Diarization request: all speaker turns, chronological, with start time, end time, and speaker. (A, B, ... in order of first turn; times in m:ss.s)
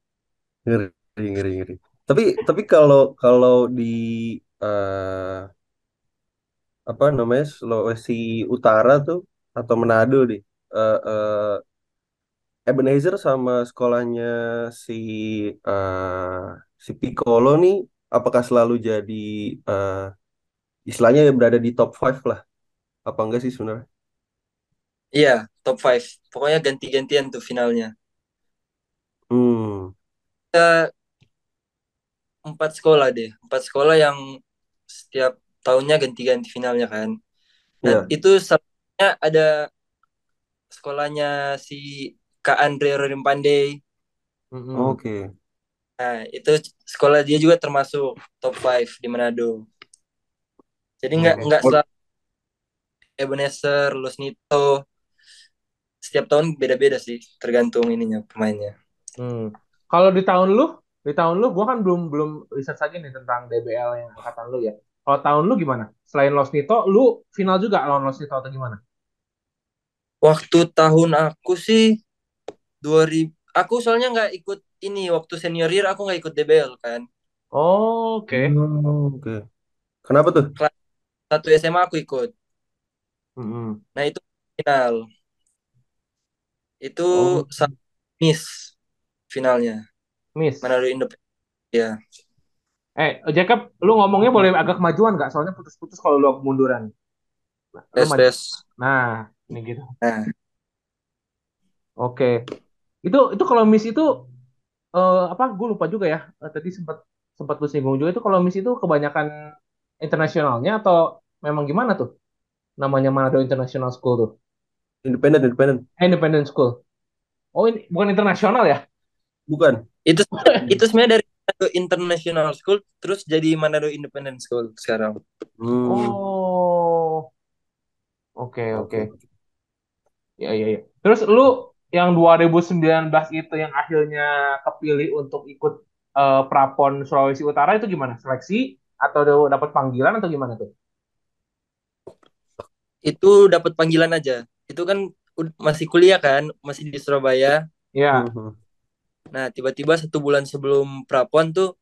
0:00.7-0:05.5 A
0:06.9-0:11.6 A
0:12.7-0:20.1 A
0:20.9-0:22.4 A
0:23.1-0:23.8 A
0:25.2-0:27.9 B
0:29.3-0:29.9 A
0:32.5-0:34.2 B
0:35.0-0:37.1 B
0:37.9-0:39.5 B
0:40.7-0:43.8 B
0:44.6-0:45.0 C
0:44.8-0:45.2 A
0:46.0-0:49.6 B
0:51.0-0:51.8 B
0:51.2-0:51.8 A
0:53.2-0:54.7 B
0:56.0-0:58.7 B
0:59.2-1:08.8 C
1:10.2-1:11.8 B
1:12.8-1:17.0 B
1:17.6-1:18.5 C
1:18.3-1:19.4 A
1:20.1-1:20.5 A
1:21.3-1:22.3 B
1:23.4-1:23.8 C
1:24.0-1:25.0 B
1:26.8-1:28.7 B
1:27.2-1:27.7 A
1:29.3-1:29.8 B
1:30.4-1:30.7 C
1:30.6-1:31.2 B
1:33.0-1:36.9 C
1:37.8-1:38.3 C
1:38.0-1:38.4 B
1:38.8-1:39.9 C
1:42.0-1:42.4 C
1:43.0-1:44.1 C
1:45.0-1:49.3 C
1:50.0-1:52.1 C
1:52.8-1:54.3 C
1:55.0-1:55.8 A
1:56.0-1:56.8 C
1:57.6-1:58.8 C
1:59.5-1:59.8 A
2:00.1-2:05.2 B
2:00.4-2:00.6 C
2:05.6-2:06.2 A
2:05.9-2:07.2 C
2:08.4-2:09.1 C
2:08.8-2:09.2 A
2:10.4-2:20.7 C
2:23.1-2:27.6 B
2:28.0-2:28.3 C
2:28.2-2:28.5 A
2:29.3-2:31.7 B